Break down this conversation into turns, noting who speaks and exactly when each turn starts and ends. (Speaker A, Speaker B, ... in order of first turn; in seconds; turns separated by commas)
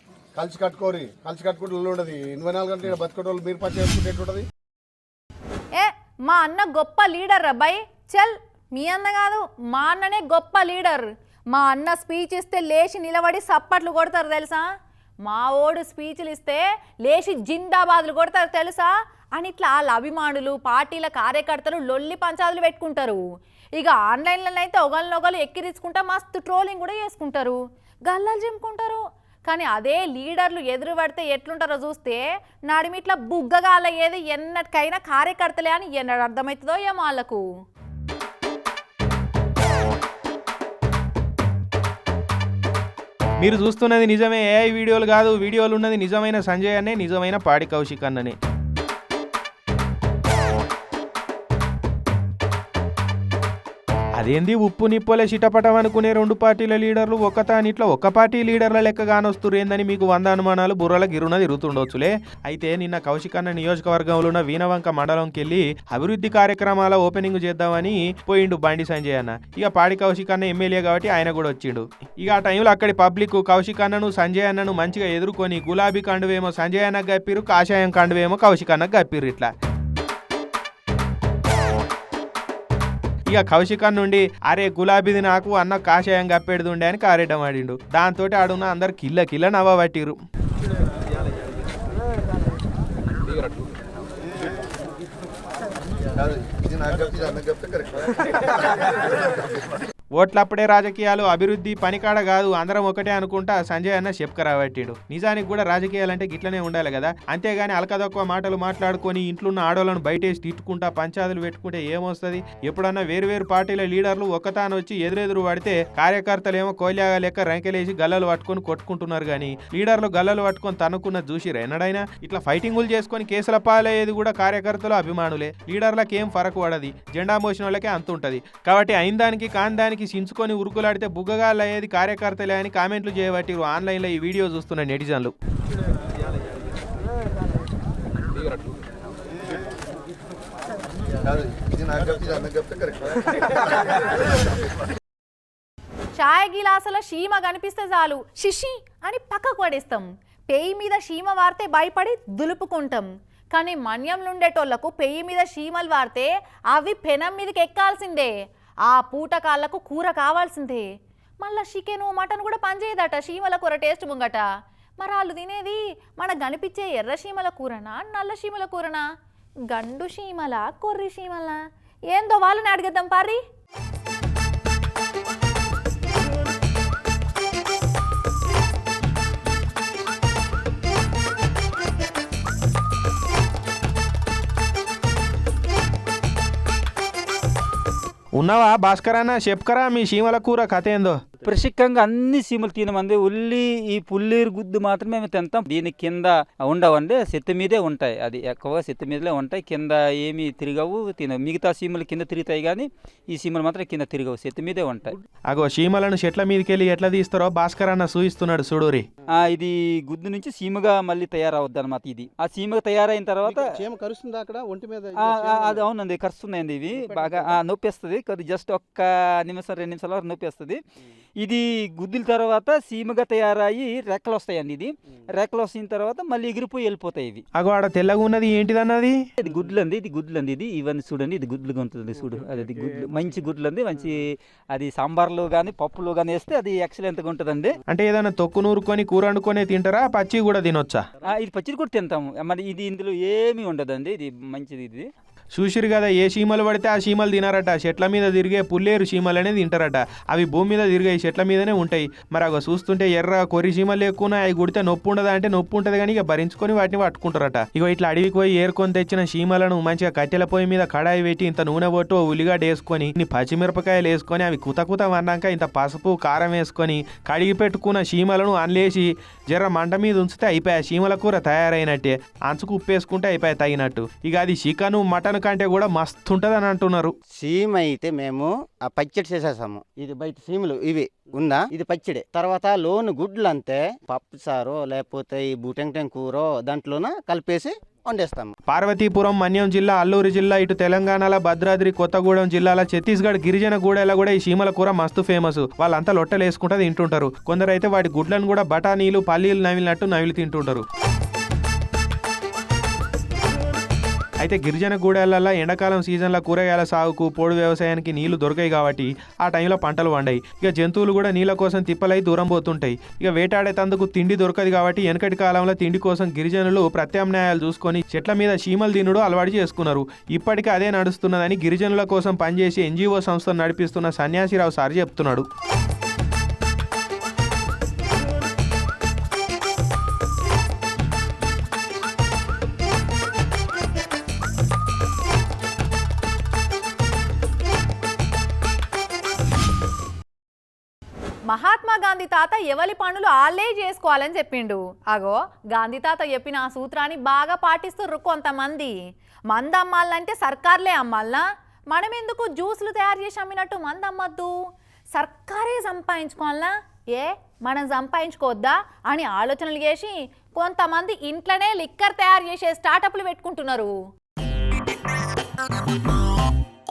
Speaker A: 0.3-4.5, Speaker B: 5.8-14.6, Speaker B: 15.2-23.2, Speaker B: 23.8-37.4, Speaker C: 43.4-48.4, Speaker C: 54.2-79.5, Speaker C: 83.3-90.2, Speaker D: 97.0-97.2, Speaker C: 100.1-135.3, Speaker B: 146.2-158.3, Speaker B: 158.9-160.8, Speaker B: 161.4-164.4, Speaker B: 165.0-169.0, Speaker B: 169.7-171.6, Speaker B: 172.1-173.4, Speaker C: 188.4-191.2, Speaker E: 191.5-205.2, Speaker C: 205.5-209.0, Speaker E: 209.4-213.8, Speaker E: 215.1-220.8, Speaker E: 221.4-227.4, Speaker C: 227.6-229.2, Speaker E: 229.4-234.2, Speaker E: 234.7-237.8, Speaker C: 237.9-241.0, Speaker E: 241.3-245.1, Speaker C: 245.5-277.1, Speaker D: 277.3-288.5, Speaker C: 288.7-300.8, Speaker C: 304.4-325.4, Speaker B: 341.5-348.9, Speaker B: 349.5-354.5, Speaker B: 355.1-363.9